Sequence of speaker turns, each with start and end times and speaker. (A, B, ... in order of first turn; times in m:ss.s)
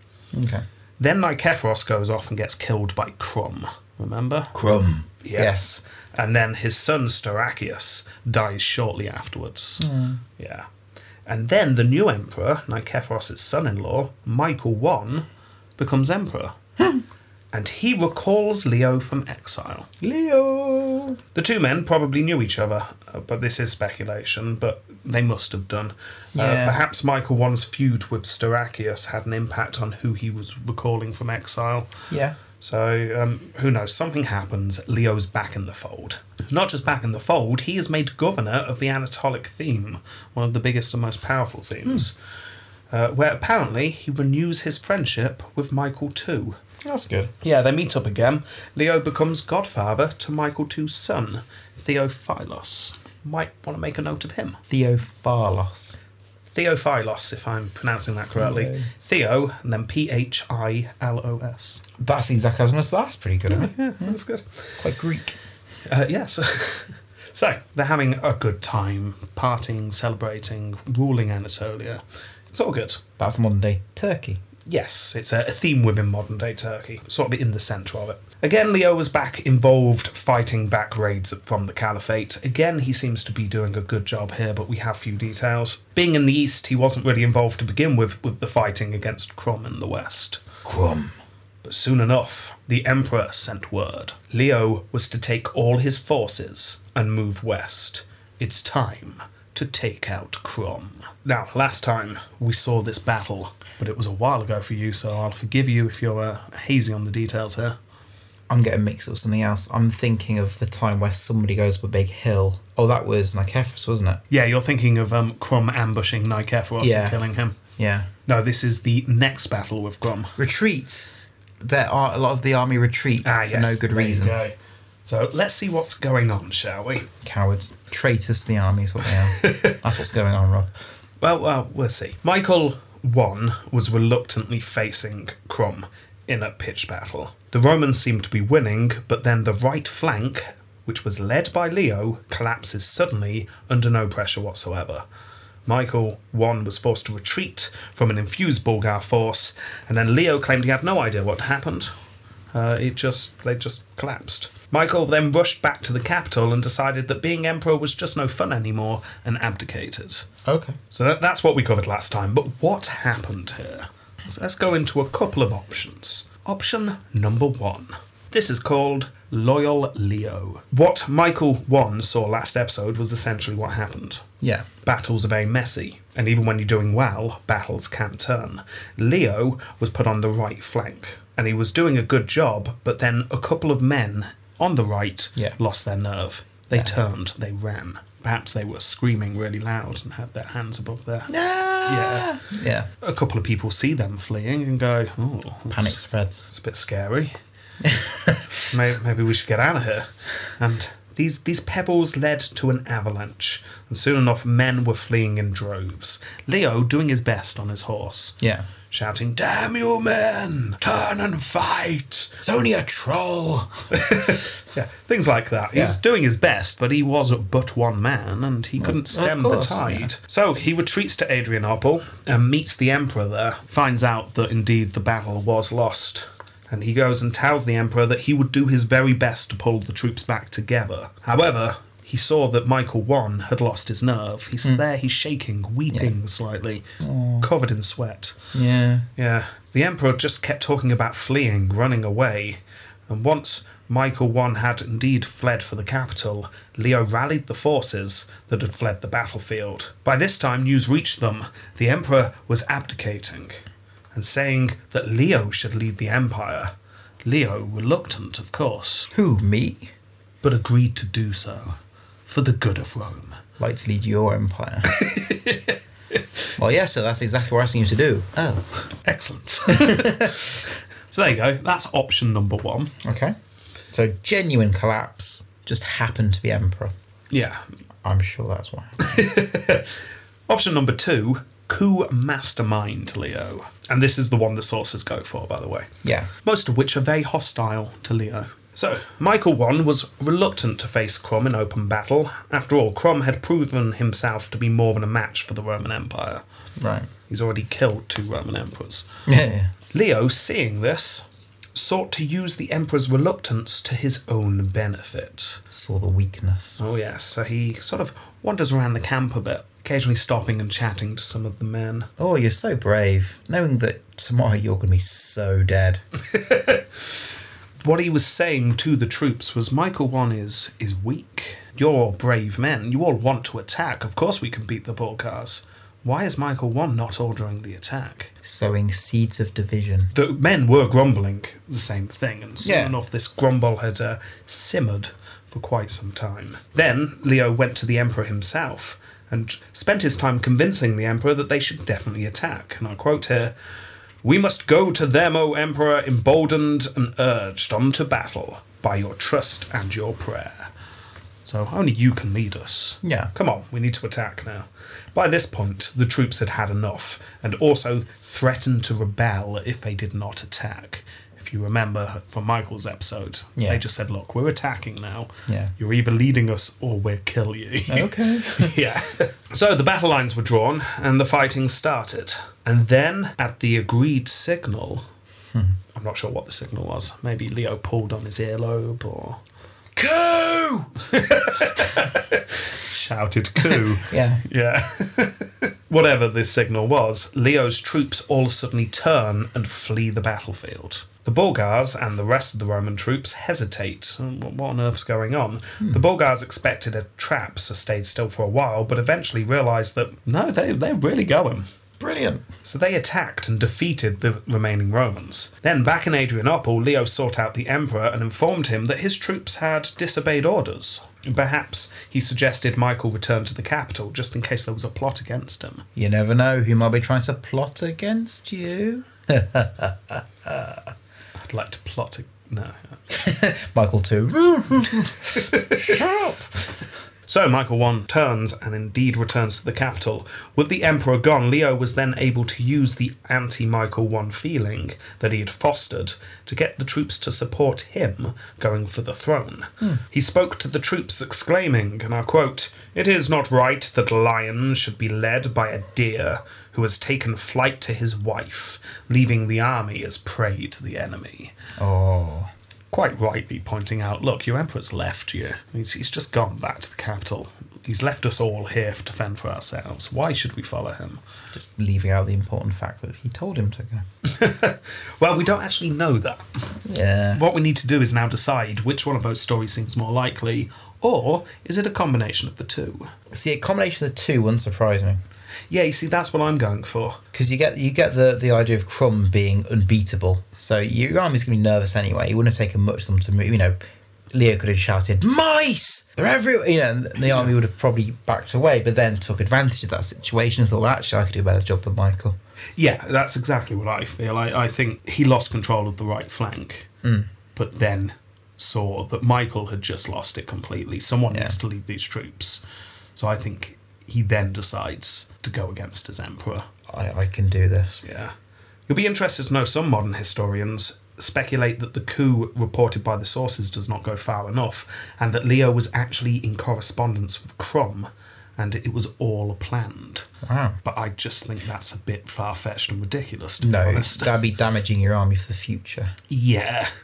0:00.3-0:00.6 A
0:01.0-0:04.5 B
0:04.5-0:05.7 A
0:05.2-0:09.9 B
0:09.8-0:10.2 A
0:10.4-0:10.7 B
0:11.2-0:16.6 B
0:17.5-0:19.9 B
0:20.0-0:21.2 A
0:21.4-0:31.9 B
0:26.4-0:26.8 A
0:32.1-0:32.4 A
0:32.6-0:42.1 B
0:42.9-0:46.6 B
0:46.8-0:47.3 A
0:47.4-0:54.6 B
0:54.7-0:56.0 A
0:56.5-1:01.8 B
0:58.4-0:58.9 A
1:02.0-1:04.2 A
1:03.5-1:04.4 B
1:04.8-1:05.4 A
1:05.9-1:12.0 B
1:12.5-1:13.0 B
1:13.2-1:14.4 A
1:14.6-1:30.4 B
1:30.6-1:31.1 A
1:31.6-1:47.8 B
1:48.5-1:54.2 A
1:54.3-1:57.6 B
1:56.8-1:57.2 A
1:57.8-1:58.1 A
1:58.3-2:00.4 B
2:00.4-2:04.4 A
2:03.2-2:04.5 B
2:05.0-2:07.1 B
2:07.2-2:10.7 A
2:09.3-2:09.8 B
2:11.2-2:25.0 B
2:25.6-2:31.9 B
2:32.5-2:40.3 B
2:40.4-2:40.8 A
2:40.9-2:54.3 B
2:54.4-2:54.6 A
2:54.8-3:11.4 B
3:11.3-3:12.9 A
3:11.9-3:12.3 B
3:13.0-3:17.4 B
3:15.7-3:16.4 A
3:17.8-3:18.6 A
3:18.7-3:28.4 B
3:28.4-3:28.7 A
3:28.9-3:32.4 B
3:32.4-3:33.8 A
3:33.9-3:56.9 B
3:35.7-3:36.0 A
3:38.8-3:40.1 A
3:57.0-3:57.5 A
3:57.4-3:58.4 B
3:58.5-3:59.1 A
3:59.2-4:16.7 B
4:17.2-4:19.1 B
4:19.1-4:19.9 A
4:20.4-4:23.4 B
4:23.6-4:25.0 A
4:24.9-4:25.8 B
4:26.6-4:28.7 A
4:29.0-4:33.0 B
4:29.7-4:30.4 A
4:33.0-4:33.4 A
4:33.9-4:36.9 A
4:37.3-4:37.6 B
4:38.0-4:39.0 A
4:39.0-4:40.0 B
4:40.5-4:45.9 B
4:46.0-4:46.3 A
4:46.4-4:56.4 B
4:56.8-4:57.1 A
4:57.3-4:59.1 B
4:59.3-4:59.7 A
4:59.9-5:05.6 B
5:05.7-5:06.8 A
5:06.8-5:12.1 B
5:12.2-5:16.0 A
5:16.3-5:16.8 B
5:17.8-5:28.3 B
5:28.4-5:30.1 A
5:30.1-5:43.5 B
5:32.6-5:33.0 A
5:44.2-5:50.7 B
5:51.4-6:15.0 B
5:53.0-5:53.3 A
6:03.6-6:03.8 A
6:05.5-6:05.7 A
6:07.9-6:08.8 A
6:15.9-6:19.4 B
6:20.0-6:20.9 A
6:21.1-6:41.7 B
6:23.7-6:24.4 A
6:42.0-6:42.4 A
6:42.6-6:55.8 B
6:56.0-7:00.9 A
7:01.4-7:03.0 B
7:03.1-7:06.6 A
7:05.3-7:05.9 B
7:07.3-7:31.6 B
7:31.8-7:32.5 A
7:32.9-7:41.2 B
7:41.5-7:44.0 A
7:44.2-7:46.4 B
7:46.9-7:47.4 A
7:47.3-7:53.1 B
7:53.3-7:55.2 A
7:55.7-7:57.2 B
7:57.3-8:03.8 A
8:04.3-8:12.4 A
8:07.2-8:07.5 B
8:12.8-8:16.9 B
8:17.0-8:17.3 A
8:17.6-8:22.6 B
8:21.3-8:21.6 A
8:23.2-8:26.7 B
8:26.9-8:28.0 A
8:28.0-8:28.3 B
8:28.9-8:40.3 B
8:40.4-8:40.8 A
8:40.8-8:44.3 B
8:43.6-8:46.1 A
8:46.3-8:46.9 B